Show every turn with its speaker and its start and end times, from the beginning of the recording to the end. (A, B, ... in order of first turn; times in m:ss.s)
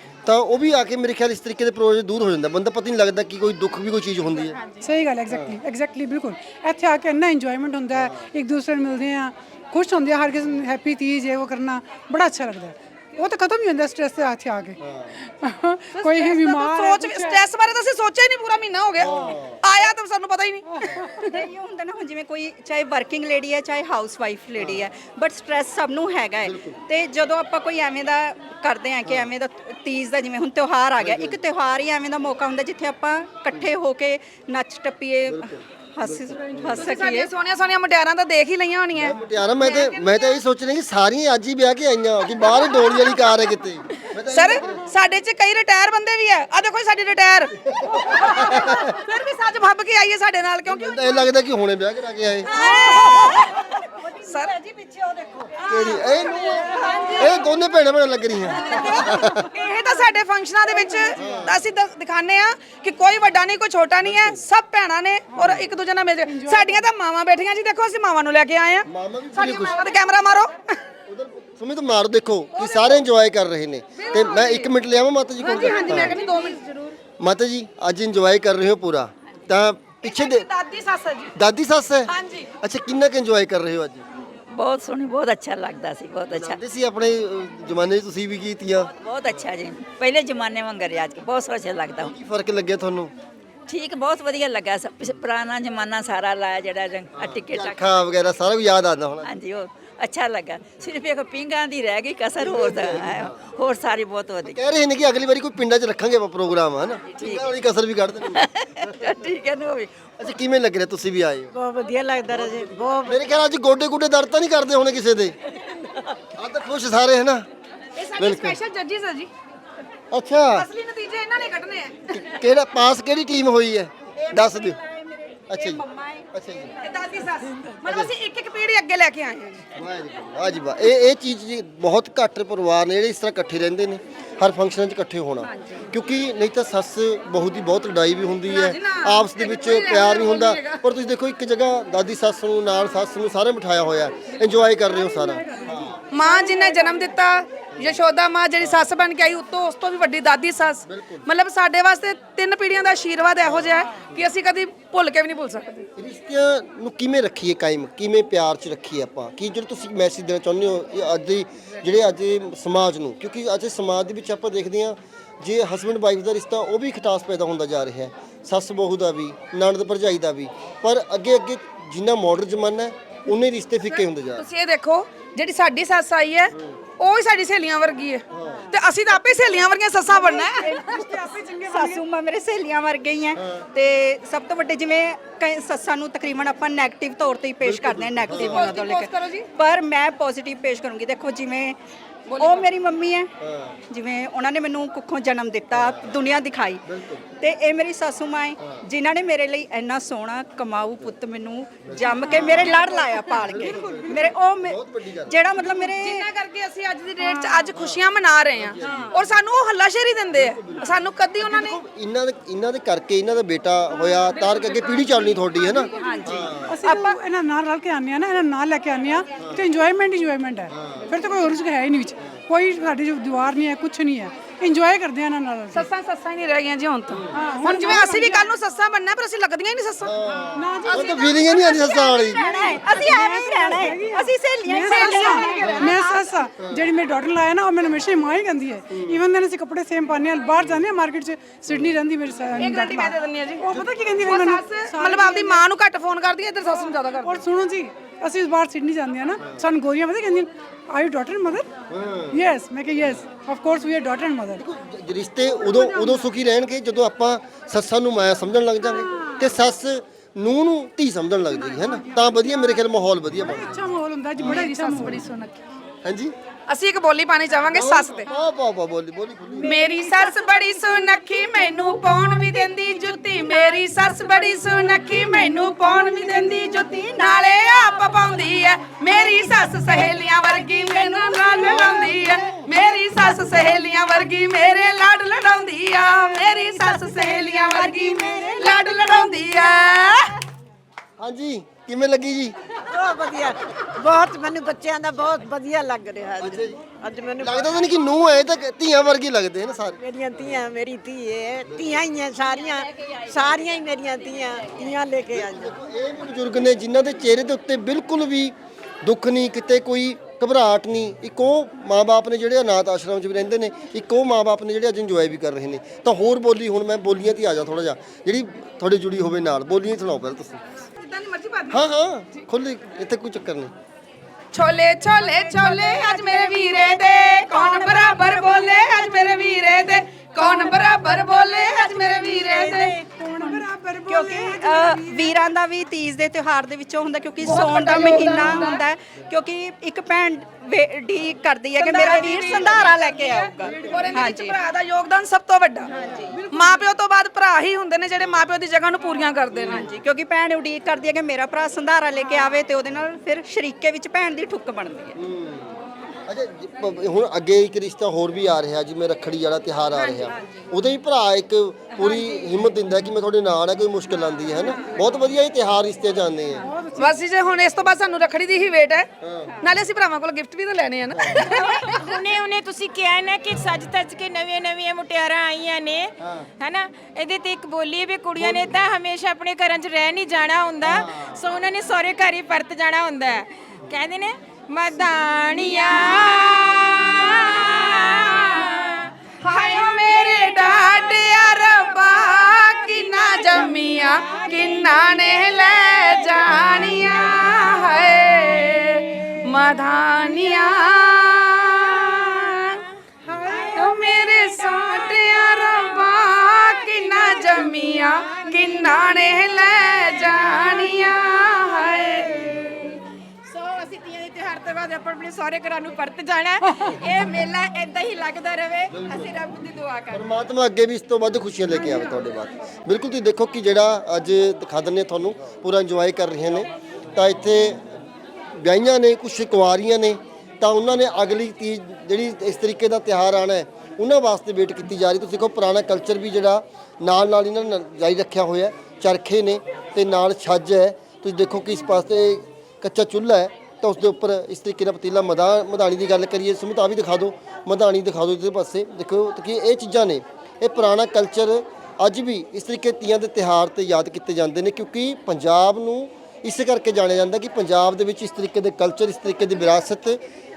0:00.2-0:04.6 A
0:04.8-0:17.4 B
0:05.3-0:05.6 A
0:07.9-0:08.3 A
0:14.8-0:15.2 A
0:15.9-0:21.3 C
0:19.0-0:19.6 A
0:21.0-0:21.2 B
0:21.2-0:37.3 D
0:24.6-0:24.8 A
0:26.4-0:26.8 A
0:29.0-0:29.3 A
0:31.0-0:31.4 A
0:35.3-0:36.9 A
0:36.7-0:40.4 C
0:38.9-0:44.9 A
0:42.8-0:43.1 C
0:44.2-0:51.3 C
0:47.6-0:49.0 A
0:50.6-0:52.5 A
0:52.4-0:54.7 C
0:55.6-0:57.4 C
0:55.6-0:59.5 A
0:56.4-0:57.1 B
0:58.5-1:10.5 C
1:00.8-1:01.3 B
1:01.2-1:01.6 A
1:04.0-1:04.4 A
1:05.3-1:05.6 B
1:05.4-1:05.7 A
1:06.2-1:06.8 B
1:08.9-1:09.9 A
1:11.1-1:16.2 A
1:12.5-1:13.0 C
1:14.0-1:14.7 C
1:15.4-1:17.0 C
1:15.7-1:16.5 B
1:17.2-1:20.5 A
1:20.0-1:21.3 C
1:21.3-1:24.0 A
1:22.1-1:22.5 C
1:24.5-1:26.6 E
1:26.3-1:29.5 A
1:28.9-1:32.1 E
1:32.0-1:33.1 A
1:33.7-1:37.8 E
1:37.1-1:39.4 A
1:39.2-1:44.6 E
1:42.4-1:43.4 A
1:44.4-1:49.1 A
1:47.1-1:47.5 E
1:48.4-1:50.1 E
1:50.2-1:51.5 A
1:51.5-1:53.2 F
1:53.0-1:55.4 A
1:56.3-1:57.4 A
1:57.9-1:59.3 C
1:58.2-1:58.6 A
2:00.1-2:00.7 A
2:00.5-2:02.2 C
2:02.1-2:04.8 A
2:04.1-2:06.3 D
2:05.5-2:05.8 A
2:06.3-2:06.7 A
2:06.8-2:09.6 C
2:07.8-2:08.1 A
2:09.8-2:26.0 A
2:18.5-2:20.8 C
2:25.0-2:27.1 B
2:26.1-2:35.9 C
2:27.8-2:28.0 A
2:28.6-2:28.9 A
2:30.8-2:31.3 A
2:33.4-2:34.2 A
2:36.0-2:54.4 A
2:53.9-3:00.8 C
2:58.3-2:58.7 A
3:00.1-3:02.0 B
3:00.6-3:11.8 D
3:03.3-3:03.7 A
3:07.6-3:08.7 A
3:08.3-3:09.5 C
3:12.3-3:12.7 C
3:12.4-3:13.3 D
3:13.4-3:13.8 A
3:13.9-3:16.8 D
3:15.7-3:16.1 A
3:16.8-3:17.2 A
3:17.4-3:26.2 D
3:21.8-3:22.9 A
3:22.2-3:24.2 B
3:23.4-3:25.4 A
3:25.6-3:31.8 C
3:27.2-3:27.6 B
3:27.7-3:29.3 A
3:28.8-3:29.1 D
3:30.3-3:36.8 A
3:34.3-3:37.2 C
3:36.0-3:36.5 D
3:36.7-3:45.9 B
3:40.7-3:41.1 A
3:45.7-3:50.1 C
3:47.3-3:48.4 B
3:50.0-3:52.4 A
3:50.6-3:51.0 B
3:50.8-3:51.9 C
3:51.1-3:56.0 D
3:52.4-4:05.6 B
3:54.8-3:56.2 C
3:56.6-3:56.9 A
3:58.9-3:59.2 A
4:02.6-4:07.4 C
4:07.2-4:11.7 B
4:11.9-4:12.4 A
4:12.3-4:14.6 B
4:14.5-4:23.8 A
4:15.7-4:16.2 B
4:21.9-4:22.6 B
4:23.4-4:25.2 B
4:24.4-4:24.6 A
4:24.4-4:25.6 C
4:26.0-4:26.3 A
4:26.7-4:28.3 C
4:27.7-4:29.7 A
4:29.6-4:50.3 C
4:29.8-4:30.2 D
4:51.2-4:52.5 A
4:52.9-4:57.8 F
4:56.4-4:56.8 A
4:57.4-5:00.6 A
5:00.0-5:05.8 F
5:01.6-5:02.0 A
5:02.6-5:03.6 E
5:05.3-5:20.6 A
5:20.9-5:21.8 C
5:21.7-5:23.7 A
5:24.5-5:33.0 C
5:32.5-5:35.4 B
5:34.1-5:44.6 D
5:37.4-5:38.8 C
5:41.8-5:45.9 C
5:45.9-5:46.4 D
5:45.9-5:46.3 A
5:46.3-5:46.8 B
5:46.5-5:49.9 C
5:49.7-5:55.2 D
5:55.1-6:06.7 A
6:06.6-6:07.2 B
6:07.0-6:09.1 C
6:09.2-6:09.5 A
6:09.6-6:12.0 C
6:11.2-6:11.5 A
6:11.5-6:29.1 G
6:16.2-6:16.4 A
6:18.4-6:18.7 A
6:20.8-6:21.4 A
6:29.4-6:42.8 C
6:34.2-6:34.6 G
6:43.3-6:44.0 G
6:43.7-6:52.9 C
6:53.5-7:00.2 G
6:58.9-6:59.3 A
7:00.1-7:07.9 A
7:08.5-7:40.2 A